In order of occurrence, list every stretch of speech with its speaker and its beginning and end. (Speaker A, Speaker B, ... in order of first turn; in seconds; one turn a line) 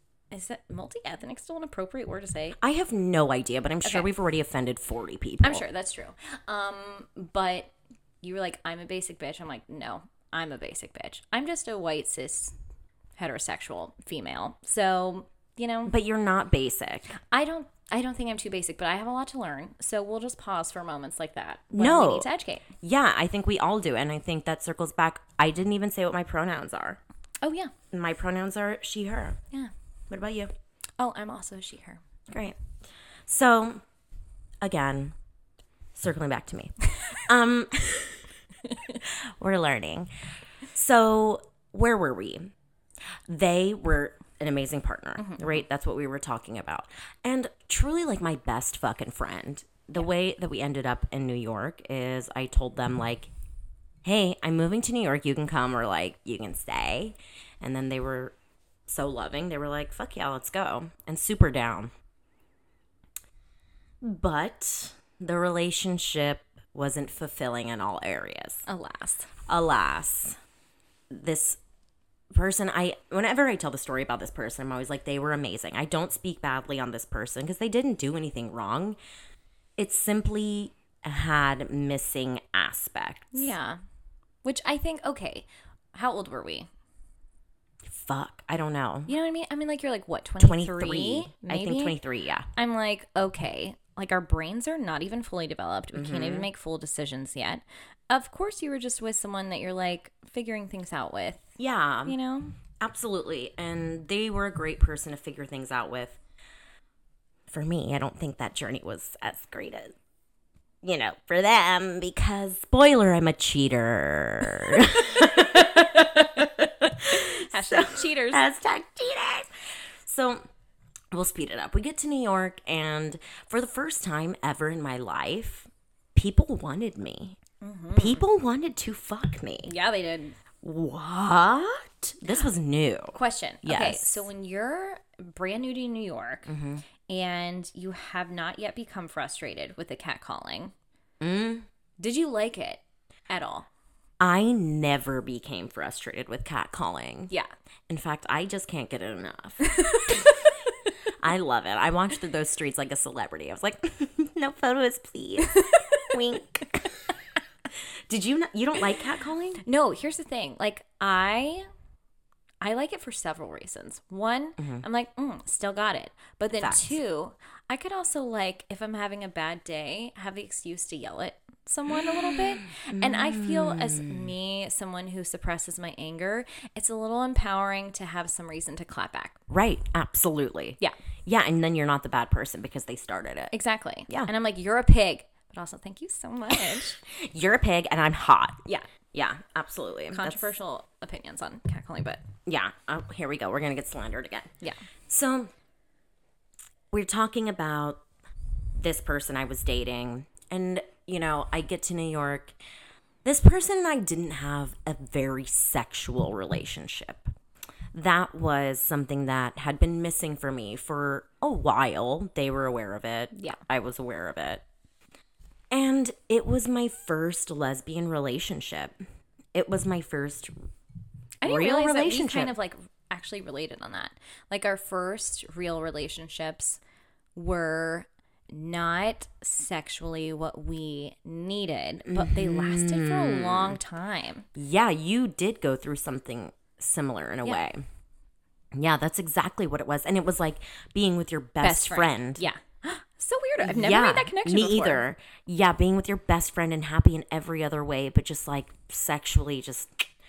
Speaker A: 0.3-2.6
Speaker B: 2.6-5.7
Speaker A: 5.4-7.7
Speaker A: 8.2-12.6
Speaker A: 13.2-15.9
Speaker B: 15.9-17.2
Speaker A: 17.2-22.7
Speaker B: 21.7-22.3
Speaker B: 22.8-27.0
Speaker A: 27.4-27.7
Speaker B: 27.9-29.4
Speaker B: 30.1-30.5
Speaker A: 31.0-32.0
Speaker B: 32.3-32.6
Speaker B: 33.3-33.8
Speaker B: 34.6-35.1
Speaker B: 36.0-38.2
Speaker B: 39.0-40.1
Speaker B: 40.7-42.5
Speaker B: 43.3-53.3
Speaker A: 45.2-45.6
Speaker B: 54.0-58.3
Speaker B: 58.9-61.9
Speaker B: 64.0-68.7
Speaker A: 68.7-69.3
Speaker B: 69.5-70.4
Speaker B: 71.1-71.6
Speaker B: 72.3-79.0
Speaker B: 79.8-83.5
Speaker A: 83.3-83.8
Speaker A: 84.4-86.7
Speaker B: 87.9-89.1
Speaker A: 89.1-92.0
Speaker B: 90.4-92.5
Speaker A: 92.6-101.5
Speaker B: 95.9-96.5
Speaker B: 101.6-102.2
Speaker A: 102.0-102.5
Speaker B: 102.8-106.2
Speaker B: 107.5-110.0
Speaker B: 110.8-120.4
Speaker A: 115.3-116.2
Speaker A: 117.0-118.5
Speaker B: 121.1-127.4
Speaker A: 127.6-128.2
Speaker B: 128.0-129.7
Speaker A: 129.7-130.4
Speaker B: 130.6-134.2
Speaker A: 133.1-136.5
Speaker B: 136.5-136.9
Speaker A: 137.1-140.7
Speaker B: 141.2-141.7
Speaker A: 142.0-143.7
Speaker B: 144.2-147.3
Speaker B: 147.9-150.5
Speaker A: 149.7-150.3
Speaker B: 151.1-157.0
Speaker A: 155.6-155.8
Speaker B: 158.1-159.6
Speaker A: 159.6-161.7
Speaker A: 162.6-179.4
Speaker B: 164.6-164.8
Speaker B: 166.6-167.0
Speaker B: 172.6-174.3
Speaker B: 179.5-183.5
Speaker A: 183.5-187.0
Speaker B: 187.0-190.5
Speaker A: 190.1-192.2
Speaker B: 192.5-194.5
Speaker B: 195.1-195.5
Speaker B: 196.9-198.0
Speaker B: 198.8-202.6
Speaker B: 203.2-207.3
Speaker B: 207.9-214.6
Speaker A: 213.3-213.6
Speaker B: 215.7-219.0
Speaker B: 219.5-220.5
Speaker A: 221.4-226.8
Speaker B: 221.4-222.6
Speaker A: 227.3-234.5
Speaker B: 232.1-233.8
Speaker B: 234.6-237.8
Speaker B: 238.7-242.4
Speaker A: 241.6-245.0
Speaker B: 243.6-250.1